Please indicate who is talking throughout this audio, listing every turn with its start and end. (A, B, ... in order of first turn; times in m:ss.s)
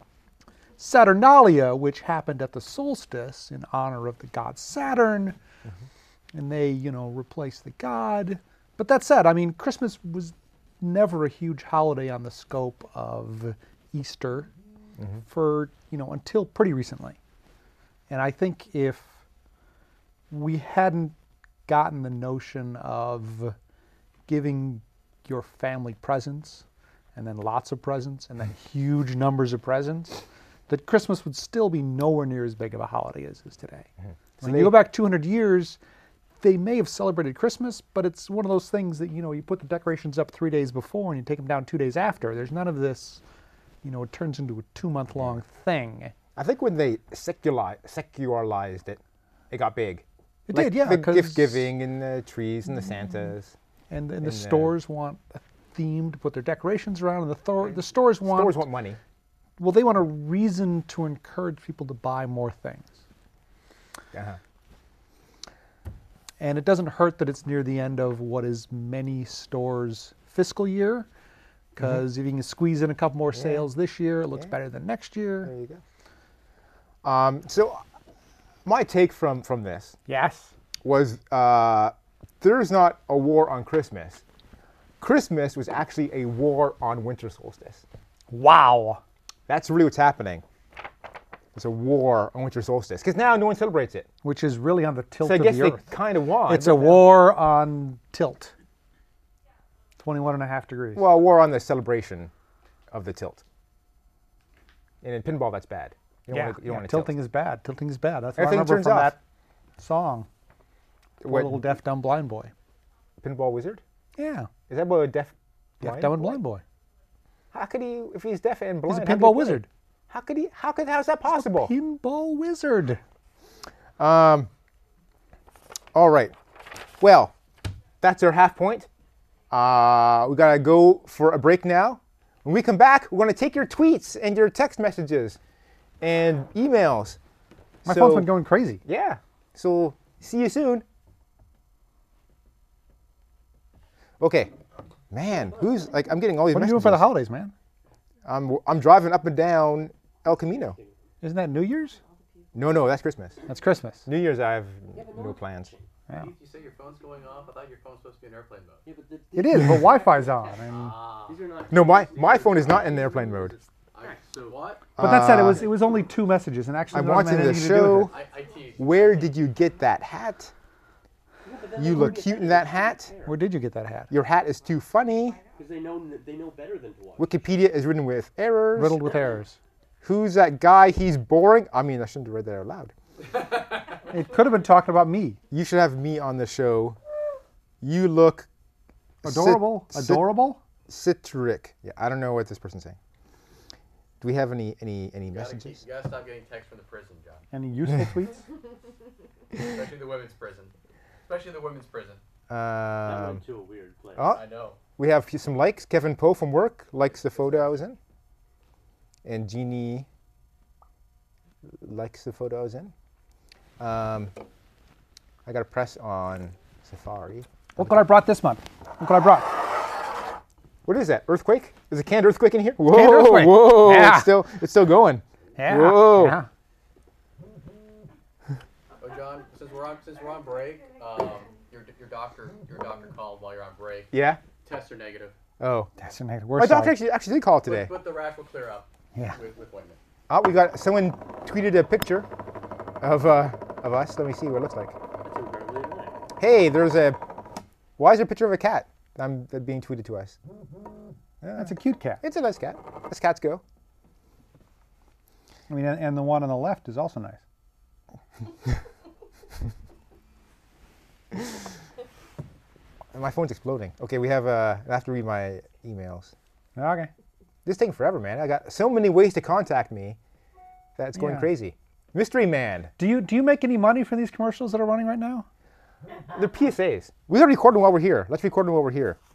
0:00.8-0:05.4 A
0:06.3-0:14.5 A
0:15.2-0:17.2 A
0:18.1-0:19.1 A
0:20.3-0:21.1 A
0:21.6-0:23.5 A
0:24.3-0:26.6 A
0:27.1-0:33.9 A
0:34.4-0:34.8 B
0:34.4-0:35.8 A
0:36.4-0:43.2 A
0:43.8-0:46.1 A
0:46.4-0:53.5 B
0:50.5-0:51.7 A
0:53.9-0:58.6 A
0:54.2-0:54.7 B
0:58.2-0:59.0 B
0:59.6-1:03.0 A
1:04.1-1:04.4 B
1:06.4-1:11.1 A
1:11.7-1:15.5 A
1:13.3-1:13.6 B
1:15.4-1:15.8 B
1:17.0-1:17.8 B
1:18.6-1:20.0 B
1:20.1-1:20.5 A
1:20.8-1:24.2 B
1:25.0-1:27.8 B
1:28.3-1:29.0 A
1:29.5-1:30.4 B
1:31.5-1:34.1 B
1:34.2-1:35.9 A
1:35.2-1:37.1 B
1:36.5-1:38.5 A
1:40.0-1:41.0 A
1:41.0-1:42.3 B
1:42.9-1:43.4 B
1:45.0-1:47.1 B
1:46.3-1:49.2 A
1:48.4-1:49.1 B
1:49.8-1:50.3 A
1:51.2-1:51.6 B
1:51.2-1:52.5 A
1:53.2-1:53.8 B
1:54.2-1:54.5 A
1:54.7-1:56.4 B
1:55.8-1:56.6 A
1:57.5-2:01.7 B
1:58.9-1:59.7 A
2:01.3-2:03.0 A
2:04.0-2:04.5 B
2:05.9-2:06.3 B
2:07.0-2:07.3 B
2:08.0-2:08.9 B
2:09.5-2:15.4 B
2:16.0-2:17.2 B
2:17.8-2:18.3 B
2:17.8-2:18.8 A
2:18.8-2:20.8 B
2:24.2-2:24.5 B
2:25.1-2:27.1 B
2:26.5-2:27.5 A
2:28.2-2:30.8 B
2:30.6-2:30.9 C
2:31.2-2:32.0 A
2:32.5-2:33.4 B
2:33.5-2:34.0 A
2:34.0-2:35.7 B
2:34.9-2:35.9 C
2:36.2-2:38.8 D
2:38.8-2:40.3 C
2:39.3-2:40.9 A
2:39.5-2:39.9 B
2:40.7-2:41.4 D
2:40.8-2:44.6 C
2:41.7-2:43.5 B
2:43.9-2:44.8 D
2:45.0-2:45.7 B
2:45.0-2:48.1 A
2:46.9-2:48.1 B
2:48.1-2:49.2 D
2:48.8-2:50.5 B
2:51.4-2:53.4 C
2:51.8-2:53.1 B
2:53.2-2:54.1 A
2:54.1-2:55.4 B
2:55.6-2:57.3 C
2:57.2-2:59.0 B
2:58.7-2:59.6 A
3:00.0-3:02.9 B
3:04.1-3:05.4 A
3:05.5-3:07.0 B
3:07.8-3:08.5 B
3:09.2-3:10.3 B
3:09.2-3:10.6 A
3:10.9-3:13.0 B
3:14.2-3:15.8 B
3:15.3-3:17.4 D
3:17.5-3:18.4 A
3:17.9-3:18.2 B
3:19.6-3:20.7 D
3:21.2-3:22.2 D
3:22.5-3:23.4 B
3:23.0-3:24.4 C
3:24.2-3:24.4 B
3:24.3-3:24.8 D
3:25.0-3:28.0 B
3:29.2-3:30.1 B
3:31.7-3:32.9 B
3:33.8-3:34.3 B
3:35.4-3:38.0 B
3:37.8-3:39.6 A
3:40.8-3:46.4 B
3:42.9-3:44.4 A
3:45.6-3:46.5 A
3:49.0-3:55.3 D
3:54.1-3:54.4 B
3:55.6-3:55.9 B
3:56.0-3:56.9 A
3:56.6-3:57.9 B
3:57.6-4:00.0 D
4:00.3-4:02.3 B
4:03.0-4:05.0 B
4:05.2-4:06.2 C
4:06.4-4:07.2 B
4:08.0-4:10.4 B
4:11.4-4:12.2 A
4:11.5-4:13.6 B
4:15.7-4:17.4 A
4:23.1-4:26.3 B
4:26.8-4:27.1 A
4:27.6-4:30.2 B
4:31.0-4:32.9 B
4:31.2-4:31.5 A
4:33.0-4:35.4 A
4:36.3-4:39.2 B